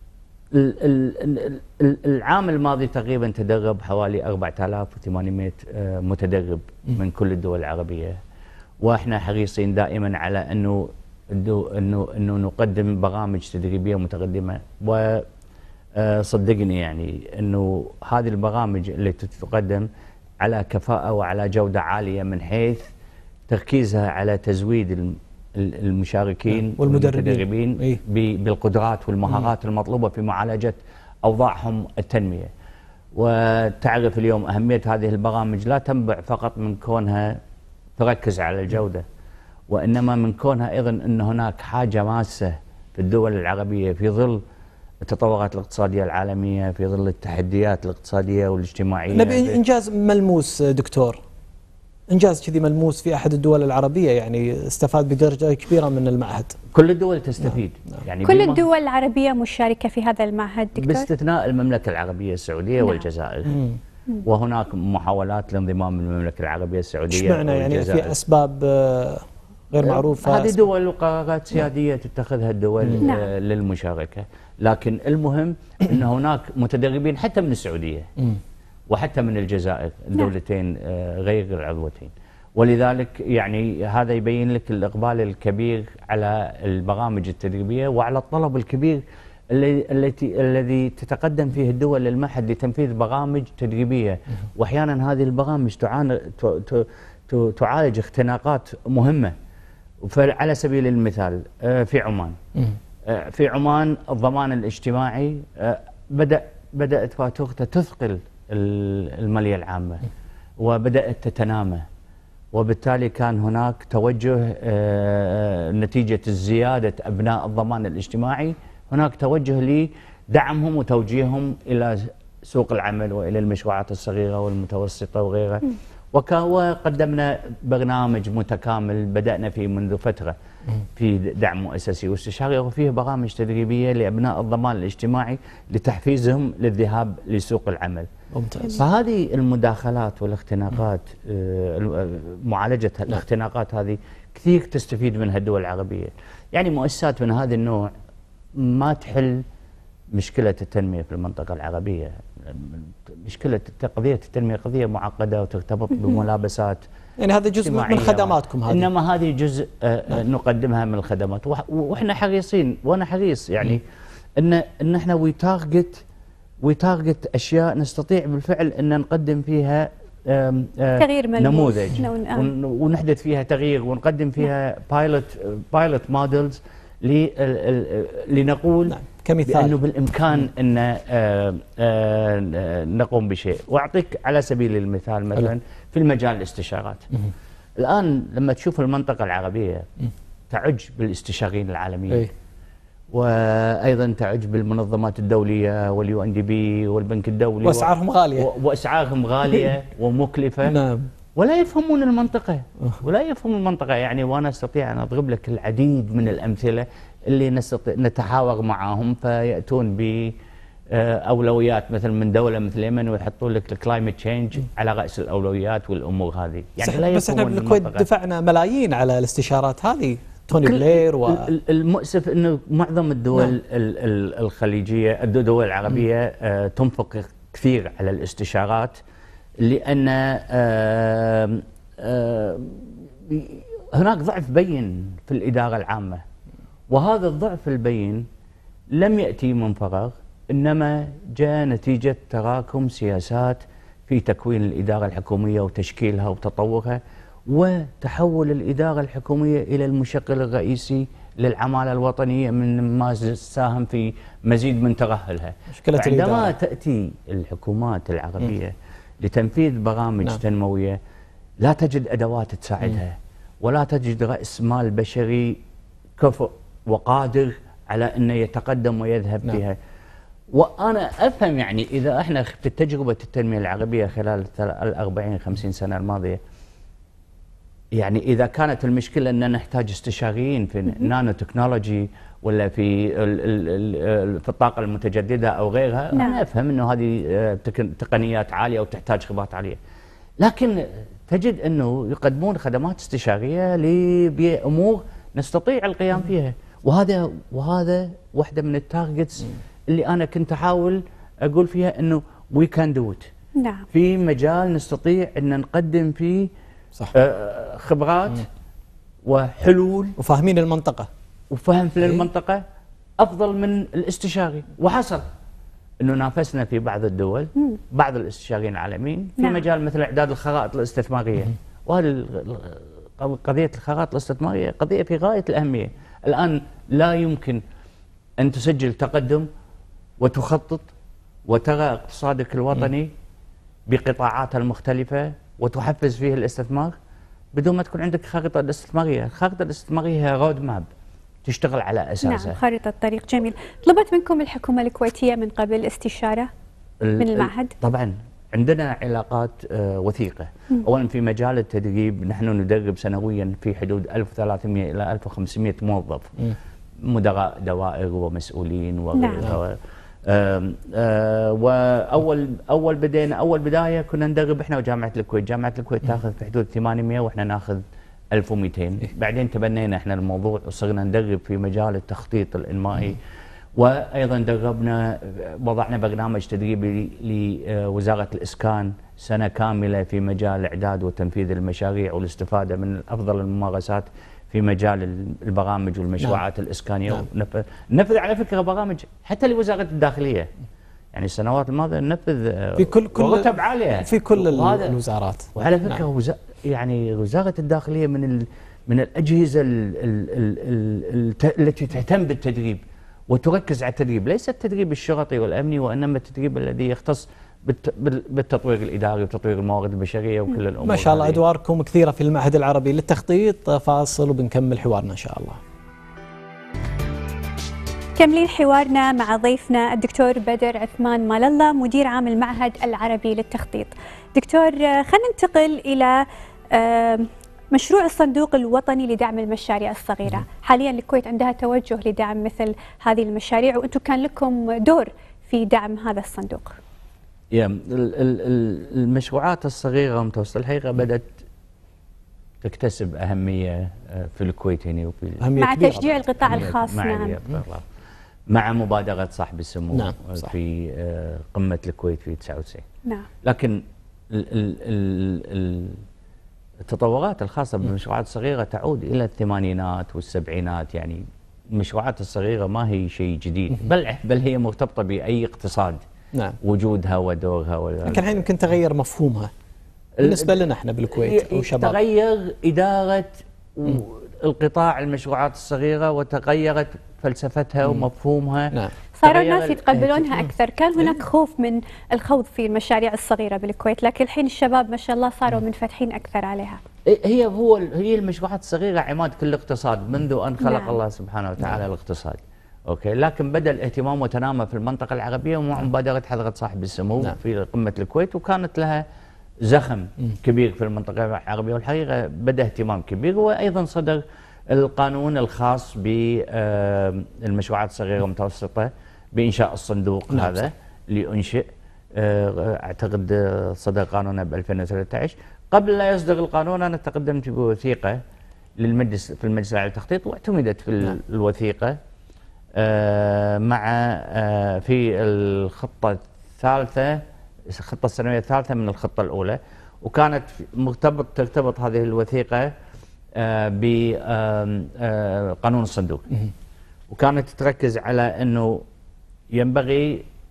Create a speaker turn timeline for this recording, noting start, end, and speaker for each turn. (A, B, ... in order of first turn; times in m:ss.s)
0:00.5-0:08.2 A
0:08.8-0:15.3 A
0:15.9-0:19.9 A
0:20.4-0:22.9 A
0:23.5-0:32.5 A
0:26.5-0:28.0 B
0:33.1-0:37.4 A
0:38.0-0:39.0 A
0:39.7-0:44.4 A
0:45.0-0:49.6 A
0:49.1-0:51.2 B
0:52.1-0:56.6 B
0:56.7-0:58.6 A
0:58.2-1:01.1 C
1:00.8-1:03.6 A
1:02.8-1:03.1 C
1:03.5-1:03.8 B
1:04.2-1:08.2 A
1:07.1-1:10.6 B
1:09.8-1:18.1 A
1:13.0-1:13.3 C
1:18.9-1:39.4 A
1:40.0-1:42.4 A
1:43.0-1:50.0 A
1:50.6-1:51.9 A
1:52.5-2:10.4 A
2:11.0-2:18.1 A
2:18.3-2:18.8 B
2:18.6-2:27.9 A
2:28.5-2:29.4 A
2:30.1-2:36.8 A
2:37.2-2:38.9 B
2:37.6-2:43.8 A
2:44.4-2:46.0 A
2:46.6-3:07.1 A
2:51.0-2:52.5 C
2:58.9-2:59.8 B
3:07.8-3:09.9 A
3:10.5-3:12.3 A
3:13.1-3:20.8 A
3:17.6-3:18.5 B
3:20.6-3:21.1 B
3:21.4-3:30.4 A
3:30.9-3:38.1 A
3:36.8-3:41.5 B
3:40.6-3:49.0 A
3:49.6-3:56.2 A
3:56.9-3:58.2 A
3:58.9-4:21.0 A
4:15.7-4:16.5 B
4:21.6-4:25.6 A
4:26.2-4:29.8 A
4:30.5-4:36.4 A
4:37.9-4:49.8 A
4:46.1-4:46.4 C
4:50.4-5:03.3 A
5:03.6-5:03.9 C
5:03.9-5:06.5 A
5:07.1-5:08.5 A
5:09.2-5:10.2 A
5:10.2-5:11.1 B
5:11.5-5:12.6 A
5:13.2-5:15.2 A
5:16.0-5:27.6 A
5:28.4-5:29.5 A
5:30.2-5:30.9 A
5:31.5-5:33.1 A
5:33.9-5:37.0 A
5:37.5-5:40.9 A
5:41.4-5:42.6 A
5:42.2-5:46.5 C
5:47.0-5:56.4 A
5:47.2-5:47.7 C
5:57.0-6:13.2 A
5:59.2-5:59.5 C
6:13.8-6:30.5 A
6:31.1-6:35.0 A
6:32.8-6:35.5 B
6:35.5-6:51.4 A
6:50.8-6:55.6 B
6:58.2-7:16.8 C
7:17.5-7:21.4 A
7:22.6-7:27.9 A
7:25.4-7:26.1 B
7:25.6-7:27.4 C
7:28.5-7:32.9 A
7:29.9-7:30.5 B
7:33.4-7:36.0 A
7:36.8-7:46.0 A
7:46.6-7:48.4 A
7:48.1-7:49.5 B
7:50.2-8:00.4 A
7:50.2-7:52.0 B
7:59.2-8:06.8 C
8:07.0-8:19.0 A
8:10.6-8:11.0 C
8:19.6-8:38.2 A
8:30.3-8:30.7 B
8:38.8-8:42.0 A
8:42.8-8:52.7 A
8:53.3-8:56.3 A
8:57.1-8:58.8 A
8:59.5-9:00.3 A